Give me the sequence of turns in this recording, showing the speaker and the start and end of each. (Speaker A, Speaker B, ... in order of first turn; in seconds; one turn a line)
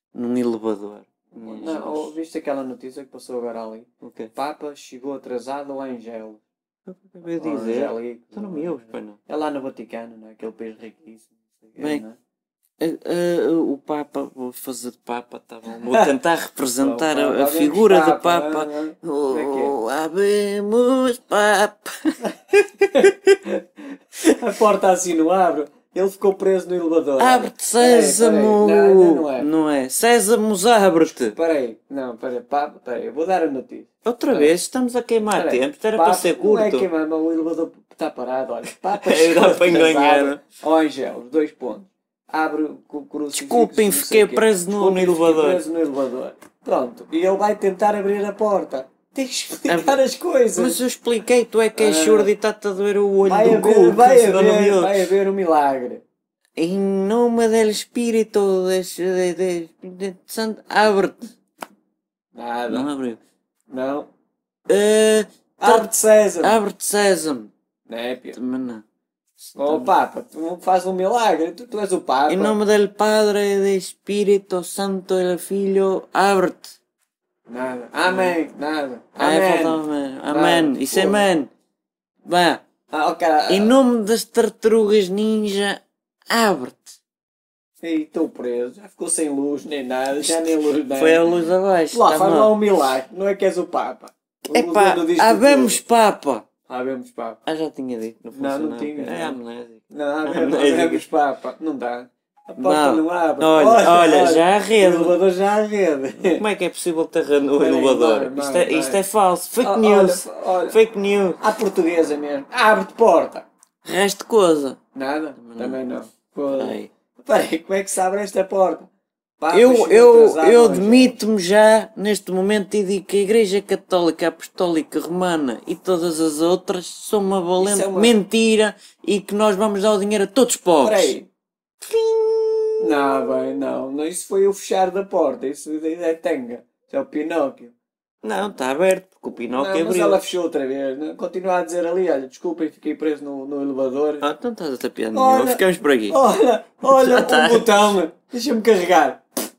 Speaker A: 0.1-2.1
Speaker B: 1.4-6.4
Speaker A: 4.0-4.3
Speaker A: 6.9-9.2
Speaker B: 7.3-12.2
Speaker A: 11.8-12.0
Speaker A: 12.8-23.3
Speaker B: 15.7-16.1
Speaker B: 16.8-19.8
Speaker B: 22.9-23.2
Speaker B: 24.2-29.5
Speaker A: 27.2-31.4
Speaker B: 31.3-34.5
Speaker A: 34.0-36.9
Speaker B: 35.3-50.8
Speaker A: 38.9-40.4
Speaker A: 43.3-45.6
Speaker A: 49.7-50.0
Speaker A: 50.6-55.1
Speaker B: 51.8-52.3
Speaker B: 53.2-56.0
Speaker A: 56.6-61.4
Speaker B: 62.3-62.9
Speaker A: 62.7-63.2
Speaker B: 63.7-64.1
Speaker A: 64.7-67.5
Speaker B: 65.6-66.6
Speaker B: 67.9-68.4
Speaker A: 68.3-68.8
Speaker A: 69.4-69.9
Speaker B: 69.6-72.6
Speaker A: 72.3-76.8
Speaker B: 77.5-81.3
Speaker A: 78.0-78.4
Speaker A: 79.2-81.5
Speaker A: 82.3-82.6
Speaker B: 82.9-83.8
Speaker A: 83.5-87.0
Speaker B: 87.8-91.3
Speaker A: 90.2-92.6
Speaker B: 91.9-95.8
Speaker A: 94.5-96.5
Speaker B: 96.7-97.4
Speaker A: 97.5-101.0
Speaker B: 98.3-99.4
Speaker B: 99.9-106.4
Speaker A: 102.6-105.2
Speaker A: 106.3-111.4
Speaker B: 107.6-109.0
Speaker B: 109.6-110.8
Speaker B: 111.4-113.5
Speaker A: 113.8-114.8
Speaker B: 115.0-121.2
Speaker A: 115.4-115.8
Speaker A: 116.5-116.9
Speaker A: 119.5-131.2
Speaker B: 127.6-128.2
Speaker B: 130.8-131.3
Speaker A: 131.8-133.3
Speaker B: 132.8-137.8
Speaker A: 138.2-140.2
Speaker B: 139.5-144.3
Speaker A: 144.2-146.2
Speaker B: 145.1-149.2
Speaker A: 146.8-148.0